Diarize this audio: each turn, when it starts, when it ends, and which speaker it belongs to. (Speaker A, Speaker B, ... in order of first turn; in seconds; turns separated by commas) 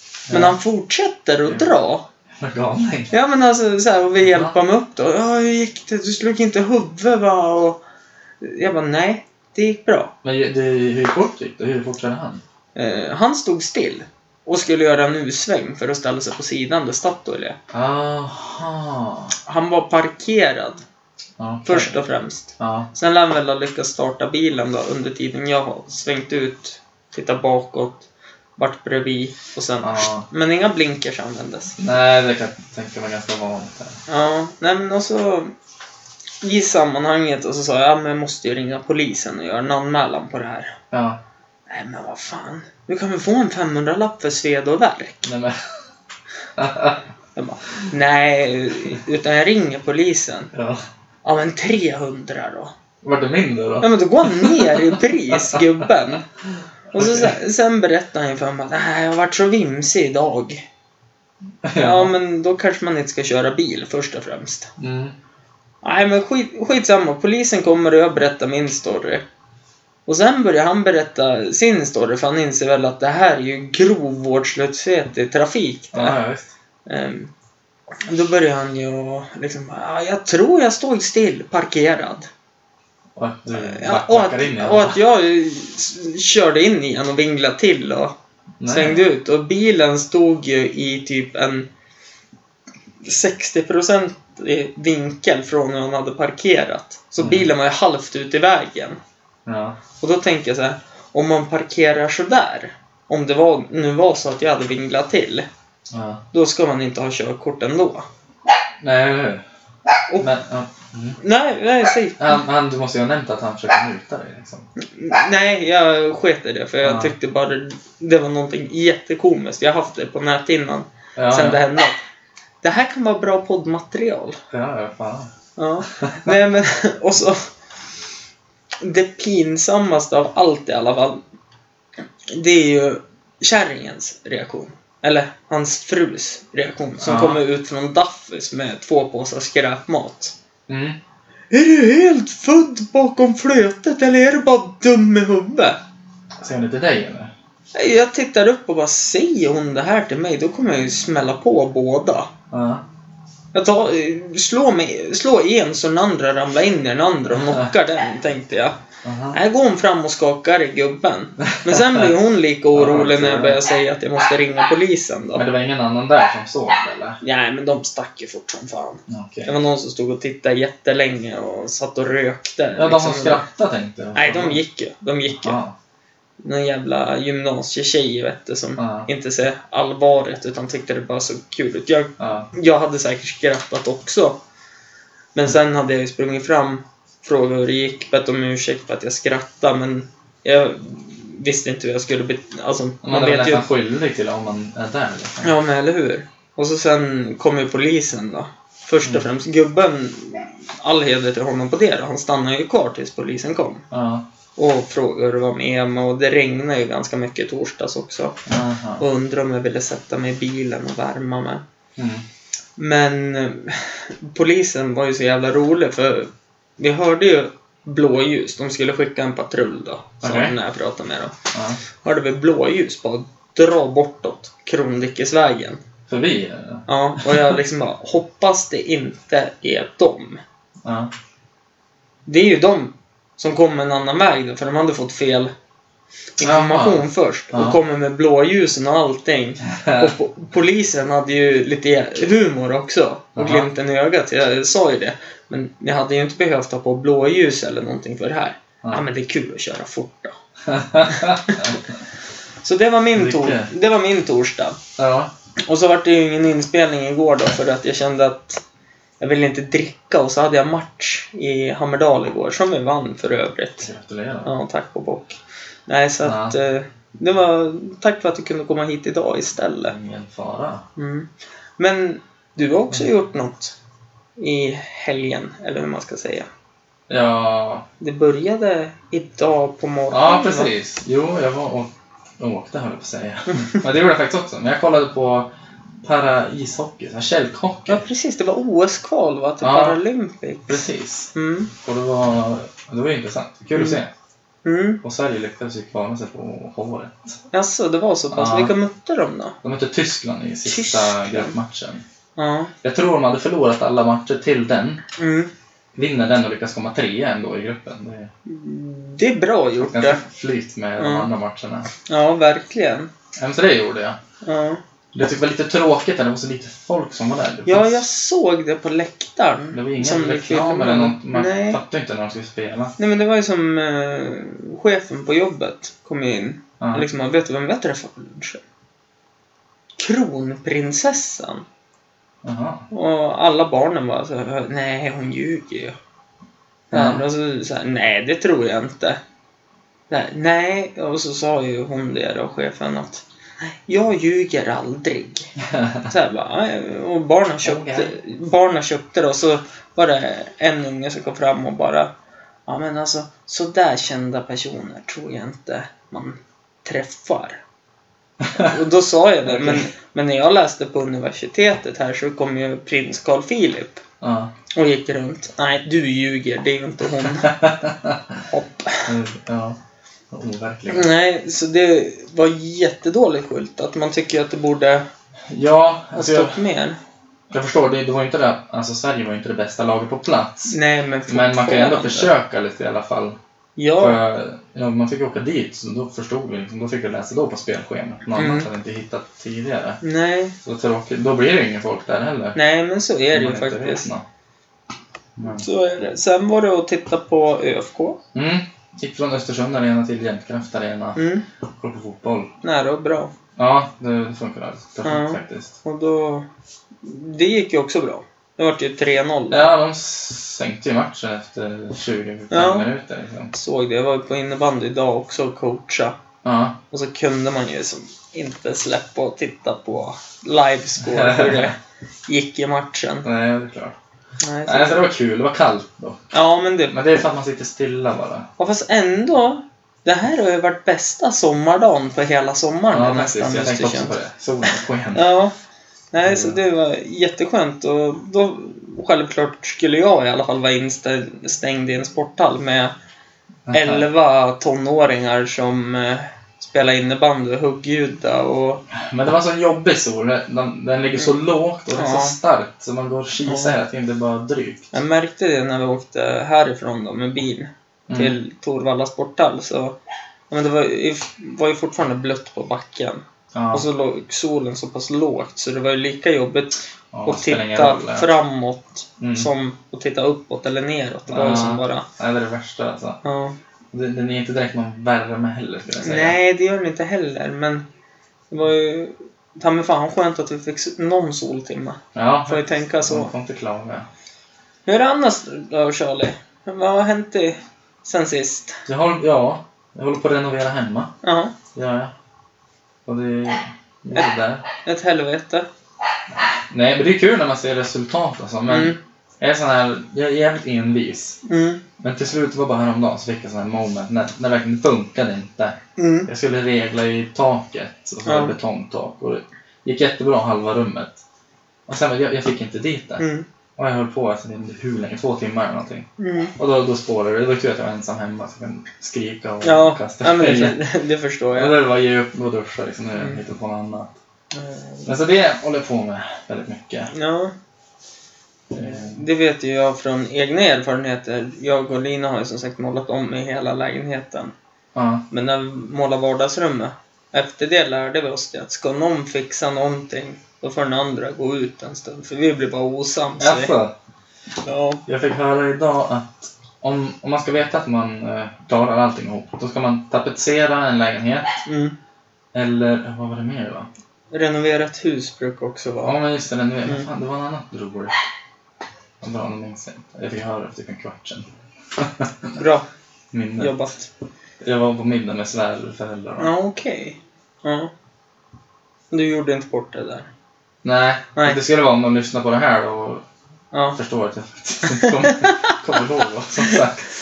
Speaker A: 0.3-0.6, Speaker B: 0.3-2.0, Speaker A: 2.4-3.1, Speaker B: 3.1-7.8, Speaker A: 4.2-4.5, Speaker B: 8.4-10.1, Speaker A: 10.2-12.4, Speaker B: 12.8-17.6, Speaker A: 17.7-19.3, Speaker B: 19.5-20.8, Speaker A: 21.4-21.9, Speaker B: 21.7-31.8, Speaker A: 22.6-22.9, Speaker A: 29.8-30.3, Speaker A: 31.8-34.0, Speaker B: 34.1-35.5, Speaker B: 36.4-40.8, Speaker A: 40.9-41.2, Speaker B: 41.7-45.3, Speaker A: 45.2-45.6, Speaker A: 46.6-47.0, Speaker B: 47.4-50.5, Speaker A: 50.5-50.8, Speaker B: 51.2-52.7, Speaker A: 53.0-55.9, Speaker B: 53.8-56.2, Speaker A: 56.9-57.4, Speaker B: 56.9-60.6, Speaker A: 61.6-62.1, Speaker B: 61.7-64.7, Speaker A: 64.8-65.2, Speaker B: 65.8-69.2, Speaker B: 70.1-76.2, Speaker A: 75.9-76.5, Speaker B: 76.9-77.3, Speaker B: 78.1-82.3, Speaker A: 83.2-85.0, Speaker B: 83.5-88.2, Speaker A: 88.6-89.0, Speaker B: 88.7-91.7, Speaker B: 93.0-99.0, Speaker A: 97.2-97.5, Speaker A: 99.5-99.8, Speaker B: 100.0-105.5, Speaker A: 105.9-106.2, Speaker B: 106.3-108.1, Speaker A: 108.8-109.4, Speaker A: 110.2-111.2, Speaker B: 111.2-112.3, Speaker A: 112.2-114.7, Speaker B: 114.8-122.0, Speaker A: 116.8-117.1, Speaker A: 121.2-121.6, Speaker B: 122.6-124.4, Speaker A: 124.5-125.3, Speaker B: 125.6-127.5, Speaker A: 126.0-126.3, Speaker B: 128.8-131.2, Speaker B: 132.3-140.3, Speaker A: 137.0-137.4, Speaker A: 140.7-141.0, Speaker B: 141.5-145.8, Speaker A: 146.4-147.3, Speaker B: 147.7-152.3, Speaker A: 152.5-152.8, Speaker B: 153.5-158.8, Speaker A: 157.3-157.7, Speaker A: 159.0-159.4, Speaker B: 159.3-165.4, Speaker A: 161.7-162.1, Speaker A: 162.7-163.6, Speaker A: 165.3-167.2, Speaker B: 167.2-173.4, Speaker A: 169.1-169.5, Speaker A: 172.8-174.6, Speaker B: 174.2-175.6, Speaker A: 175.4-175.8, Speaker B: 176.4-184.4, Speaker A: 178.8-179.1, Speaker A: 182.2-182.5, Speaker B: 185.3-193.7, Speaker A: 193.0-195.5, Speaker B: 195.4-203.9, Speaker A: 203.9-204.3, Speaker B: 204.6-208.4, Speaker A: 208.5-209.0, Speaker B: 209.0-211.6, Speaker A: 212.0-212.2, Speaker B: 212.8-221.3, Speaker A: 220.2-220.6, Speaker A: 221.5-221.8, Speaker B: 222.0-225.8, Speaker A: 226.1-227.5, Speaker B: 226.9-230.4, Speaker A: 230.8-231.1, Speaker B: 232.3-235.5, Speaker B: 236.4-250.3, Speaker A: 236.4-237.8, Speaker A: 239.7-240.2, Speaker A: 243.3-243.7, Speaker A: 250.7-251.7, Speaker B: 251.1-251.8, Speaker B: 252.6-254.8, Speaker A: 253.2-253.7, Speaker A: 255.0-255.3, Speaker B: 255.6-258.6, Speaker B: 259.2-263.9, Speaker A: 263.8-264.5, Speaker B: 264.4-269.9, Speaker A: 266.2-266.6, Speaker A: 269.9-270.8, Speaker B: 271.0-273.8, Speaker B: 274.4-276.5, Speaker A: 277.1-277.9, Speaker B: 278.0-280.7, Speaker A: 280.1-285.5, Speaker A: 286.0-288.0, Speaker B: 287.9-291.7, Speaker A: 289.6-290.0, Speaker A: 290.7-294.1, Speaker B: 293.7-294.0, Speaker B: 294.6-295.0, Speaker A: 295.0-297.4, Speaker B: 297.5-299.6, Speaker A: 298.3-298.8, Speaker A: 299.6-302.0, Speaker B: 300.6-301.6, Speaker B: 302.4-302.7, Speaker A: 302.8-305.0, Speaker B: 305.2-305.5, Speaker A: 305.9-308.3, Speaker B: 308.5-310.2, Speaker A: 309.8-311.9, Speaker B: 311.0-311.3, Speaker B: 312.1-313.1, Speaker A: 313.4-314.2, Speaker B: 314.4-314.8, Speaker A: 315.1-318.1, Speaker B: 317.7-321.8, Speaker A: 319.7-322.9, Speaker B: 323.0-328.6, Speaker A: 326.8-327.1, Speaker B: 330.0-331.6, Speaker A: 332.4-332.9, Speaker B: 332.9-336.0, Speaker A: 336.9-337.2, Speaker B: 336.9-339.2, Speaker B: 340.1-345.5, Speaker A: 345.6-346.1, Speaker B: 346.1-352.1, Speaker A: 347.6-348.2, Speaker B: 352.7-357.6, Speaker B: 358.6-364.0, Speaker A: 359.5-359.9, Speaker A: 364.2-364.5, Speaker B: 364.7-367.6, Speaker A: 367.5-368.4, Speaker B: 368.5-369.1, Speaker A: 369.1-369.8, Speaker A: 370.3-371.1, Speaker B: 370.9-375.1, Speaker A: 375.5-376.6, Speaker B: 376.1-377.0, Speaker A: 377.5-380.8, Speaker B: 380.7-382.3, Speaker A: 381.3-383.4, Speaker B: 383.8-384.2, Speaker A: 384.0-390.0, Speaker B: 388.4-388.7, Speaker B: 390.0-390.6, Speaker A: 390.6-392.6, Speaker B: 392.6-394.1, Speaker A: 393.3-394.2, Speaker A: 395.4-395.6, Speaker B: 395.5-398.2, Speaker A: 398.3-401.2, Speaker B: 401.1-401.5, Speaker A: 401.8-402.5, Speaker B: 402.6-403.3, Speaker A: 403.6-405.8, Speaker B: 405.0-406.4, Speaker B: 407.0-409.6, Speaker A: 409.5-413.5, Speaker B: 412.5-412.9, Speaker B: 413.5-416.2, Speaker A: 416.4-416.8, Speaker B: 416.9-421.8, Speaker A: 421.0-421.8, Speaker B: 422.3-423.3, Speaker A: 423.2-423.9, Speaker B: 424.4-425.1, Speaker A: 424.7-426.3, Speaker B: 426.3-426.9, Speaker A: 426.9-428.5, Speaker B: 428.6-434.2, Speaker A: 432.9-435.3, Speaker B: 434.7-435.5, Speaker B: 436.1-442.9, Speaker A: 436.2-436.6, Speaker A: 443.7-444.1, Speaker B: 443.7-448.8, Speaker A: 448.9-454.9, Speaker B: 451.9-452.4, Speaker B: 453.4-453.8, Speaker B: 454.9-460.0, Speaker A: 458.1-458.4, Speaker B: 460.5-472.1, Speaker A: 463.5-463.9, Speaker A: 467.1-468.3, Speaker A: 469.2-469.5, Speaker A: 471.3-473.2, Speaker B: 473.2-473.6, Speaker A: 473.9-476.4, Speaker B: 476.0-477.8, Speaker B: 478.5-483.3, Speaker A: 482.1-484.1, Speaker B: 484.9-488.8, Speaker A: 488.9-491.1, Speaker B: 491.2-491.5, Speaker A: 491.8-492.1, Speaker A: 493.1-494.6, Speaker B: 494.9-495.7, Speaker A: 496.3-501.4, Speaker B: 498.7-499.0, Speaker B: 501.4-501.8, Speaker A: 502.0-511.2, Speaker B: 506.0-506.3, Speaker B: 508.2-508.6, Speaker A: 511.9-513.2, Speaker B: 513.2-513.5, Speaker A: 513.8-520.8, Speaker B: 516.2-516.5, Speaker B: 519.6-521.7, Speaker A: 521.5-524.2, Speaker B: 524.5-525.1, Speaker A: 525.0-527.1, Speaker B: 527.1-527.5, Speaker A: 528.7-529.2, Speaker B: 528.8-534.5, Speaker A: 534.9-535.2, Speaker B: 535.3-543.7, Speaker A: 543.4-543.9, Speaker B: 544.6-545.0, Speaker A: 545.1-551.5, Speaker B: 551.7-552.0, Speaker A: 552.5-553.9, Speaker B: 554.3-556.2, Speaker A: 556.0-558.1, Speaker A: 559.2-562.5, Speaker B: 562.5-562.9, Speaker A: 563.3-563.8, Speaker B: 563.6-564.1, Speaker A: 564.6-566.5, Speaker B: 566.4-567.9, Speaker B: 569.1-570.3, Speaker A: 570.8-573.2, Speaker B: 573.7-574.0, Speaker A: 574.0-577.1, Speaker B: 574.9-575.8